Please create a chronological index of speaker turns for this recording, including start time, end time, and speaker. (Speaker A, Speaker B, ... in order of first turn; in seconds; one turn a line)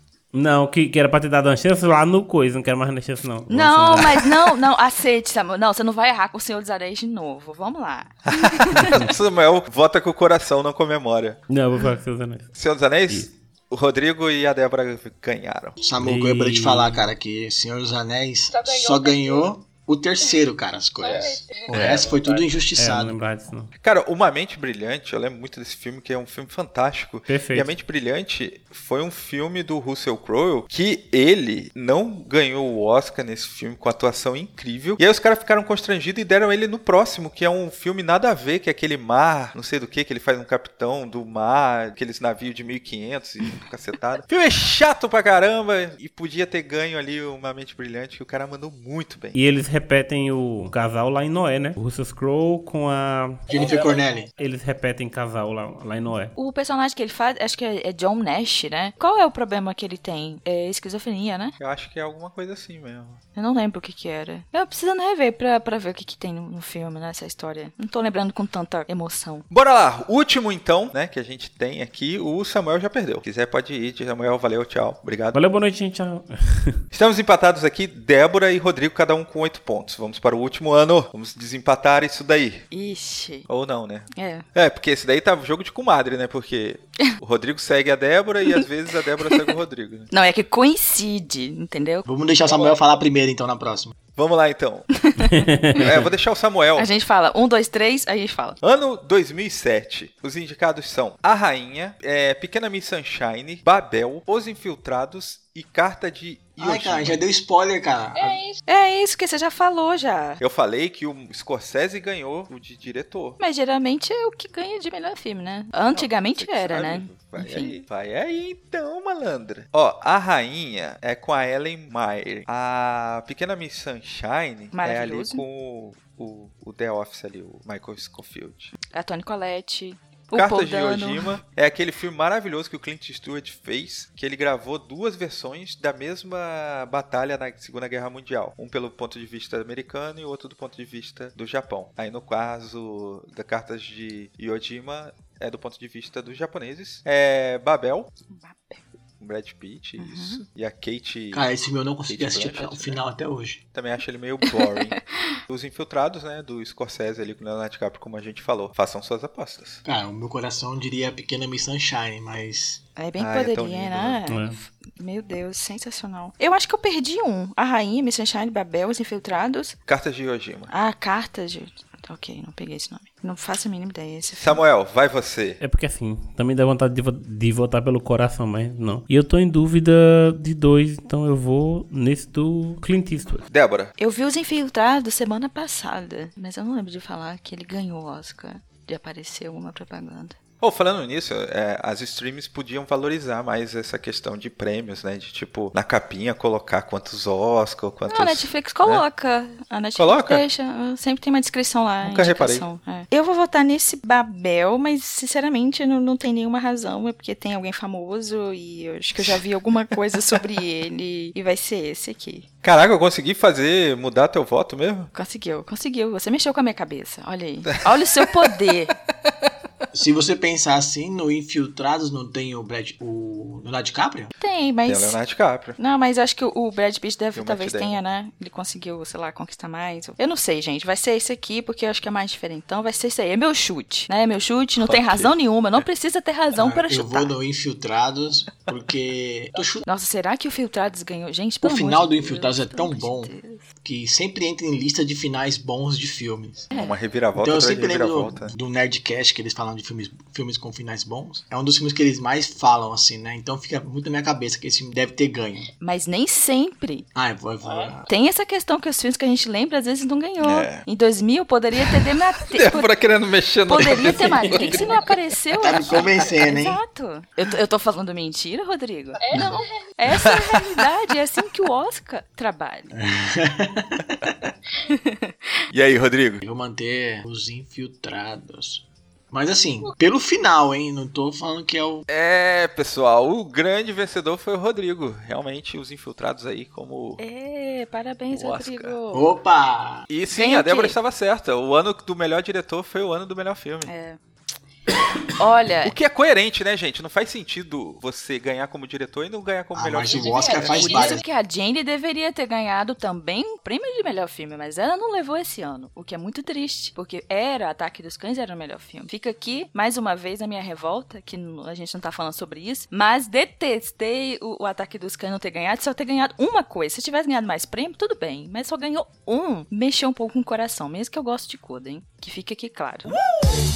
Speaker A: 0.3-4.5
Speaker B: 3.5-8.9
Speaker C: 8.3-11.4
Speaker A: 8.7-9.1
Speaker A: 11.5-12.5
Speaker C: 12.5-15.8
Speaker D: 15.8-23.2
Speaker A: 16.0-17.1
Speaker A: 21.7-22.1
Speaker A: 22.8-23.7
Speaker C: 23.8-49.4
Speaker A: 27.3-27.7
Speaker A: 49.3-53.6
Speaker D: 53.5-54.3
Speaker A: 54.4-56.3
Speaker B: 56.3-61.5
Speaker C: 61.6-63.2
Speaker B: 63.4-69.5
Speaker C: 69.5-75.4
Speaker A: 75.3-76.8
Speaker C: 76.9-82.6
Speaker B: 82.7-83.5
Speaker C: 83.5-90.1
Speaker B: 84.1-84.4
Speaker B: 89.2-89.5
Speaker B: 90.1-92.1
Speaker D: 92.0-93.9
Speaker C: 94.2-94.9
Speaker B: 95.0-95.5
Speaker A: 95.2-96.0
Speaker C: 95.8-96.9
Speaker B: 96.8-98.6
Speaker C: 98.6-107.2
Speaker D: 106.6-108.4
Speaker B: 108.7-110.4
Speaker C: 110.4-113.4
Speaker B: 113.4-117.7
Speaker C: 115.9-128.7
Speaker B: 124.7-125.4
Speaker B: 128.9-131.3
Speaker C: 130.3-148.1
Speaker B: 148.3-148.8
Speaker C: 149.2-151.5
Speaker B: 150.0-150.4
Speaker D: 151.3-153.6
Speaker C: 152.1-153.0
Speaker C: 153.7-159.8
Speaker B: 154.5-155.3
Speaker D: 159.8-162.8
Speaker B: 163.0-169.7
Speaker C: 163.2-164.2
Speaker A: 164.3-164.6
Speaker C: 169.9-170.7
Speaker B: 170.7-174.6
Speaker C: 174.4-175.6
Speaker A: 175.6-183.4
Speaker C: 183.5-183.9
Speaker B: 184.0-190.3
Speaker C: 190.6-199.0
Speaker B: 198.1-212.4
Speaker C: 200.0-200.4
Speaker C: 202.0-202.7
Speaker C: 212.6-215.1
Speaker B: 215.1-218.9
Speaker D: 219.9-224.3
Speaker B: 224.4-225.2
Speaker C: 224.8-225.8
Speaker B: 225.8-237.3
Speaker C: 227.3-228.0
Speaker C: 234.8-235.3
Speaker D: 236.6-239.8
Speaker B: 239.8-243.7
Speaker D: 241.6-243.3
Speaker D: 243.8-246.7
Speaker C: 246.7-248.5
Speaker D: 247.4-255.7
Speaker B: 255.8-257.1
Speaker D: 257.1-258.1
Speaker B: 258.1-262.9
Speaker C: 260.4-260.9
Speaker C: 262.5-265.1
Speaker B: 263.6-272.9
Speaker A: 264.4-264.8
Speaker D: 265.6-266.8
Speaker D: 269.3-269.6
Speaker C: 270.1-270.6
Speaker D: 272.9-274.4
Speaker B: 274.8-275.3
Speaker C: 275.7-276.4
Speaker D: 276.4-282.0
Speaker C: 282.1-287.2
Speaker B: 287.2-289.3
Speaker C: 288.3-288.9
Speaker D: 289.1-290.1
Speaker C: 290.1-293.9
Speaker B: 290.3-290.9
Speaker B: 293.8-294.2
Speaker B: 295.3-295.9
Speaker C: 295.8-301.1
Speaker D: 299.7-301.2
Speaker B: 300.1-323.1